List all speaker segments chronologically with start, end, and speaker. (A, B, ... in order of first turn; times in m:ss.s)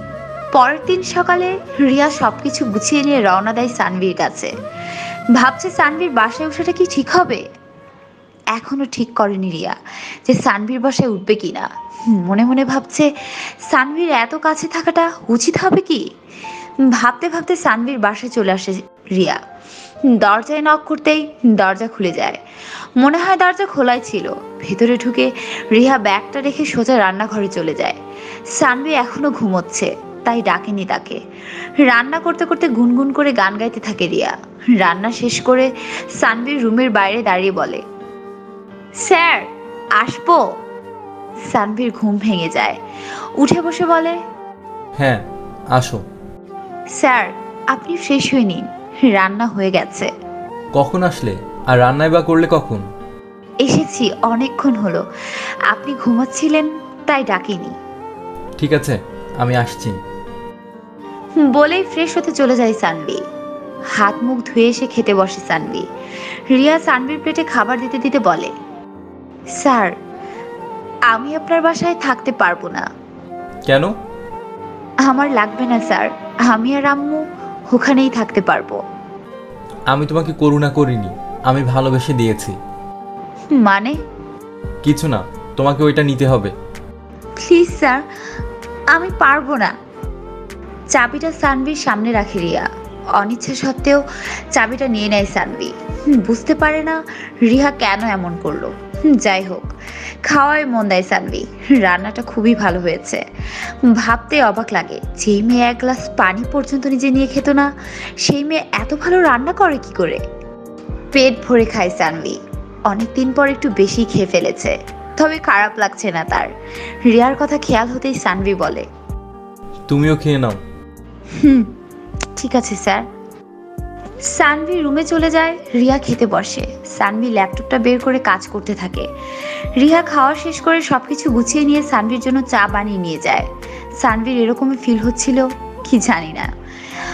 0:00.5-0:04.5 A
0:05.4-0:07.4 A
0:08.6-0:13.1 A
0:13.7-0:16.0 A
0:16.9-0:19.4 A
0:20.1-0:22.4 A
0:23.0-0:28.0 A
0:28.6-0:31.2 A
0:31.9-0:37.8 A
0:39.0-0:40.4 A
0:41.5-0:42.8 A
0:43.4-0:44.2 A
0:45.7-0:46.0 B
0:47.0-0:50.1 A
0:50.8-0:52.8 B
0:53.6-0:55.0 A
0:55.7-0:57.8 A
0:58.6-1:00.0 B
1:01.4-1:03.2 A
1:04.0-1:05.9 A
1:06.5-1:08.5 A
1:09.6-1:10.0 A
1:11.1-1:12.9 A
1:15.1-1:18.8 A
1:19.9-1:22.6 B
1:23.5-1:24.0 A
1:24.8-1:26.5 B
1:27.4-1:28.0 A
1:28.9-1:29.7 A
1:30.9-1:32.7 A
1:33.2-1:34.0 A
1:34.5-1:39.7 A
1:40.3-1:43.2 A
1:43.9-1:47.7 A
1:48.2-1:50.2 A
1:51.1-1:52.4 A
1:52.9-1:56.5 A
1:57.1-1:58.8 A
1:59.9-2:00.6 B
2:01.4-2:01.7 A
2:02.4-2:03.0 A
2:04.2-2:09.1 A
2:09.8-2:13.5 A
2:14.0-2:16.5 A